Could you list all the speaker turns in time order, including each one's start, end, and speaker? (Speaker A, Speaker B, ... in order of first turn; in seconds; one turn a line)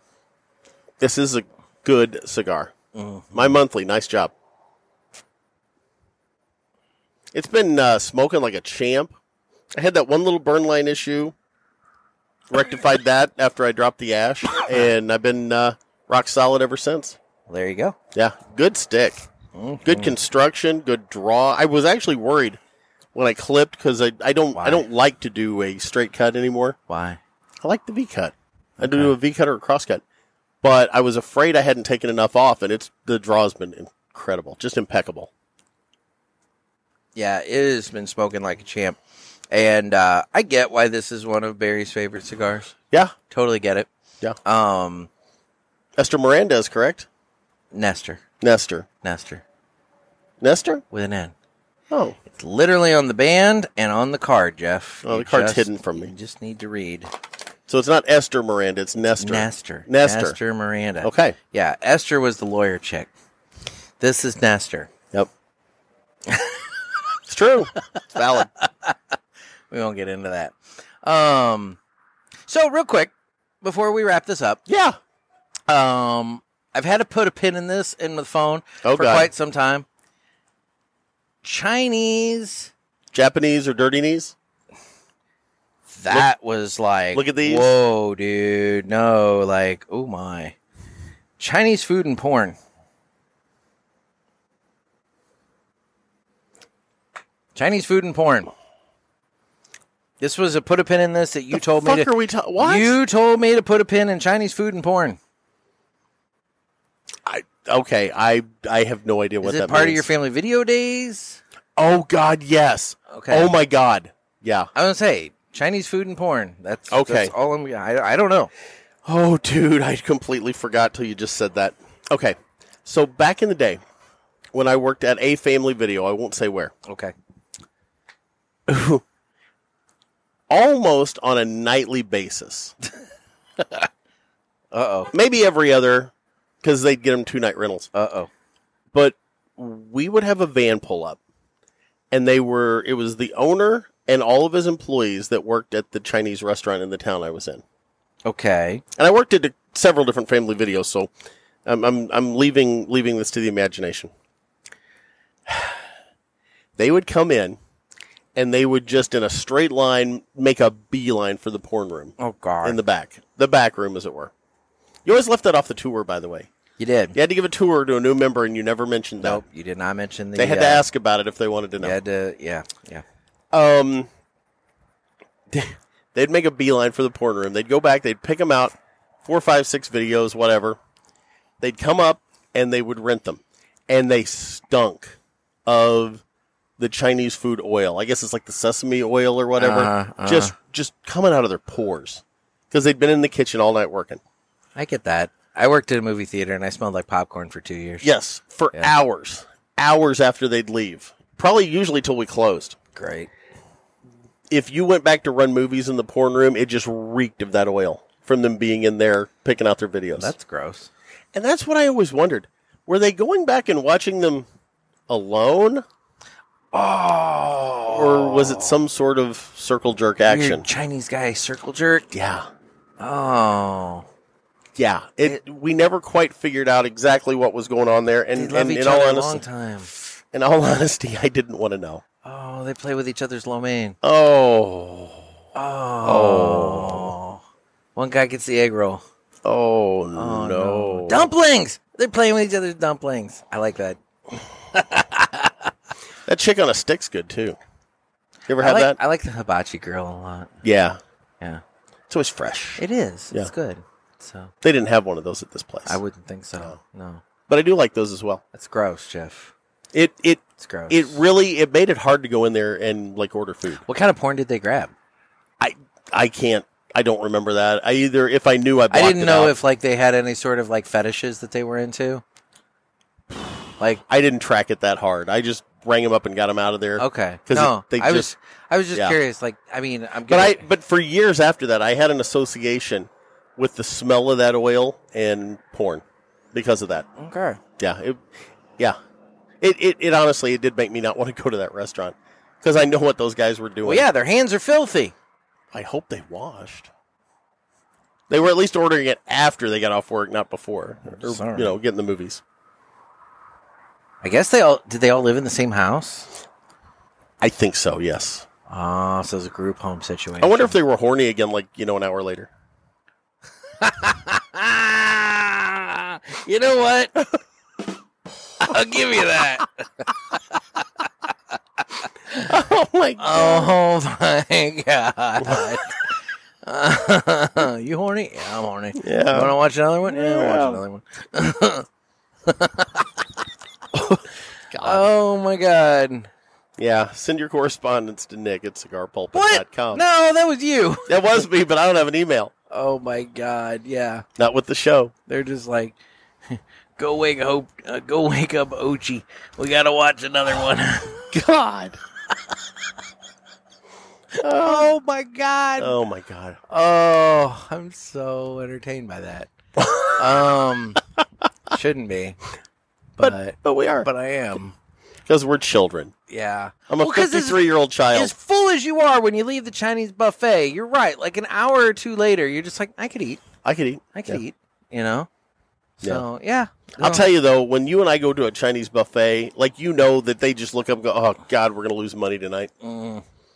Speaker A: 1.0-2.7
Speaker B: 2.9-3.6
Speaker A: 3.3-4.3
Speaker A: 7.3-9.1
Speaker A: 9.7-11.3
Speaker A: 12.5-17.2
Speaker B: 17.5-17.9
Speaker A: 18.1-19.2
Speaker B: 19.5-20.1
Speaker A: 19.8-22.6
Speaker A: 23.1-26.8
Speaker B: 24.5-24.8
Speaker B: 26.9-27.2
Speaker A: 27.6-30.0
Speaker B: 28.8-29.1
Speaker A: 30.6-35.3
Speaker B: 37.1-39.0
Speaker B: 39.5-42.7
Speaker B: 43.3-43.9
Speaker B: 44.4-45.1
Speaker A: 46.0-47.1
Speaker B: 47.7-48.2
Speaker A: 48.4-48.9
Speaker B: 49.0-49.4
Speaker A: 50.4-50.8
Speaker B: 50.9-51.3
Speaker A: 51.9-52.2
Speaker B: 52.3-57.1
Speaker A: 55.0-56.1
Speaker A: 57.7-60.4
Speaker B: 59.2-63.1
Speaker A: 61.0-61.4
Speaker B: 64.0-64.9
Speaker B: 66.3-66.6
Speaker A: 67.3-68.5
Speaker B: 68.6-68.9
Speaker B: 69.7-71.8
Speaker B: 72.5-74.6
Speaker A: 74.7-75.0
Speaker B: 75.7-79.8
Speaker A: 78.8-79.3
Speaker B: 81.4-82.7
Speaker A: 83.1-84.3
Speaker B: 85.9-90.5
Speaker A: 87.1-87.7
Speaker B: 91.4-92.6
Speaker B: 97.5-98.5
Speaker B: 100.2-105.2
Speaker A: 101.5-103.0
Speaker A: 107.2-110.0
Speaker B: 109.4-111.4
Speaker A: 111.8-114.7
Speaker B: 113.1-113.5
Speaker B: 114.7-118.5
Speaker A: 116.9-117.3
Speaker A: 119.0-123.8
Speaker A: 124.5-126.7
Speaker B: 126.8-127.1
Speaker A: 128.7-129.0
Speaker A: 130.5-132.7
Speaker B: 134.7-135.1
Speaker A: 135.1-136.1
Speaker A: 136.6-137.9
Speaker B: 137.9-138.3
Speaker A: 138.9-141.2
Speaker A: 142.1-147.6
Speaker B: 148.2-148.8
Speaker A: 149.0-151.1
Speaker A: 151.6-154.1
Speaker A: 155.5-155.7
Speaker A: 156.8-157.6
Speaker A: 158.3-164.3
Speaker B: 162.2-162.8
Speaker A: 165.0-166.5
Speaker B: 166.8-167.2
Speaker A: 167.1-169.4
Speaker B: 169.2-170.8
Speaker A: 170.3-172.0
Speaker B: 171.8-173.0
Speaker A: 173.5-174.1
Speaker A: 175.5-180.8
Speaker A: 181.6-186.2
Speaker A: 186.8-194.2
Speaker B: 189.6-190.5
Speaker B: 194.8-198.1
Speaker A: 198.0-202.8
Speaker B: 202.9-203.3
Speaker A: 204.5-210.3
Speaker B: 210.2-210.9
Speaker A: 211.3-214.4
Speaker A: 215.1-215.8
Speaker B: 216.7-218.8
Speaker A: 217.9-220.7
Speaker B: 220.2-222.1
Speaker A: 222.1-222.5
Speaker B: 223.0-224.1
Speaker A: 224.8-229.4
Speaker B: 228.3-229.9
Speaker A: 230.3-232.0
Speaker B: 232.2-234.0
Speaker A: 234.0-235.3
Speaker B: 235.5-237.4
Speaker A: 236.0-237.1
Speaker B: 237.9-239.0
Speaker A: 239.4-241.3
Speaker B: 240.1-244.0
Speaker B: 244.7-245.5
Speaker A: 246.3-247.6
Speaker A: 248.5-249.0
Speaker B: 248.6-250.5
Speaker A: 250.6-251.0
Speaker A: 252.1-253.5
Speaker B: 252.8-254.5
Speaker A: 254.6-256.0
Speaker B: 255.8-257.2
Speaker A: 257.5-258.4
Speaker B: 258.5-259.5
Speaker A: 259.9-263.8
Speaker B: 260.6-261.2
Speaker B: 263.8-264.9
Speaker A: 265.6-269.6
Speaker B: 268.9-272.2
Speaker A: 274.1-278.3
Speaker B: 277.0-280.6
Speaker A: 278.9-279.2
Speaker A: 280.3-287.1
Speaker B: 287.2-287.6
Speaker A: 287.8-288.2
Speaker A: 289.6-294.1
Speaker B: 293.8-295.1
Speaker A: 295.7-296.9
Speaker A: 298.3-302.4
Speaker B: 301.1-301.7
Speaker B: 304.2-306.3
Speaker A: 307.4-308.4
Speaker B: 308.7-310.7
Speaker A: 310.4-312.5
Speaker B: 313.8-317.2
Speaker B: 318.6-320.4
Speaker A: 322.4-323.7
Speaker B: 323.2-326.0
Speaker B: 326.6-331.9
Speaker A: 329.0-329.6
Speaker A: 330.1-330.8
Speaker B: 332.4-333.2
Speaker A: 334.7-335.1
Speaker B: 334.8-336.3
Speaker A: 336.8-340.0
Speaker B: 339.3-341.2
Speaker A: 341.1-342.5
Speaker B: 342.7-344.2
Speaker A: 344.4-345.1
Speaker B: 345.3-345.9
Speaker B: 346.5-351.3
Speaker A: 351.3-352.0
Speaker B: 354.4-355.9
Speaker A: 354.4-354.9
Speaker A: 355.8-356.6
Speaker B: 356.7-359.5
Speaker B: 360.1-361.0
Speaker B: 361.7-362.4
Speaker B: 363.2-364.7
Speaker A: 363.2-364.1
Speaker A: 365.2-366.1
Speaker B: 366.3-373.4
Speaker A: 366.9-368.3
Speaker A: 373.6-374.4
Speaker B: 374.1-375.3
Speaker B: 376.0-377.3
Speaker A: 377.0-382.7
Speaker B: 382.8-383.2